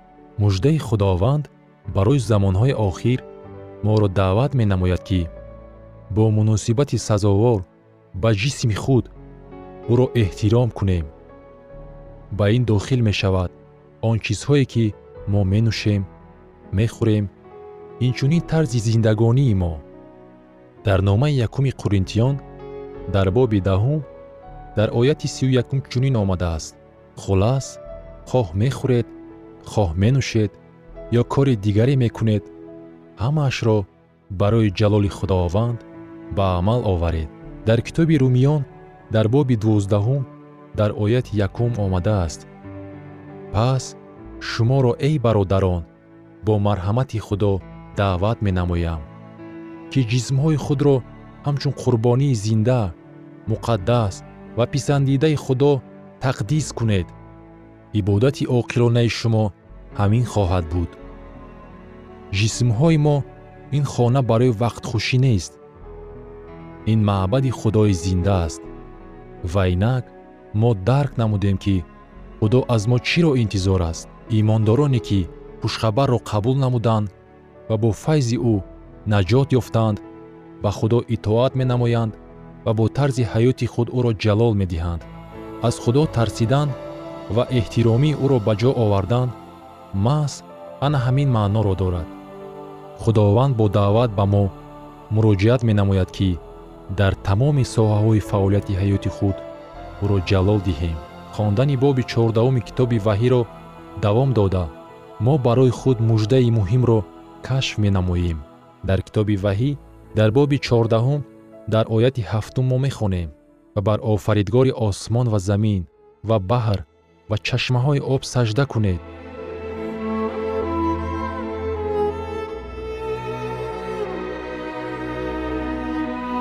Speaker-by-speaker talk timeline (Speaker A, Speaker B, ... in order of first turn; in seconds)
Speaker A: 0.4-3.2, 3.8-5.3, 6.1-9.1, 9.9-11.1, 12.3-16.1, 16.7-17.3, 18.0-19.8, 20.8-22.4, 23.1-24.1, 24.8-29.1, 29.6-30.6, 31.1-32.5, 33.2-42.5, 43.5-45.9, 46.4-49.1, 49.9-52.9, 53.5-57.1, 57.9-61.0, 62.3-65.6, 66.9-68.7, 69.4-71.9, 72.4-77.1, 77.7-80.0, 80.6-85.1, 85.6-86.8, 87.3-89.3, 89.9-92.1, 93.0-94.5, 95.1-99.4, 100.0-119.0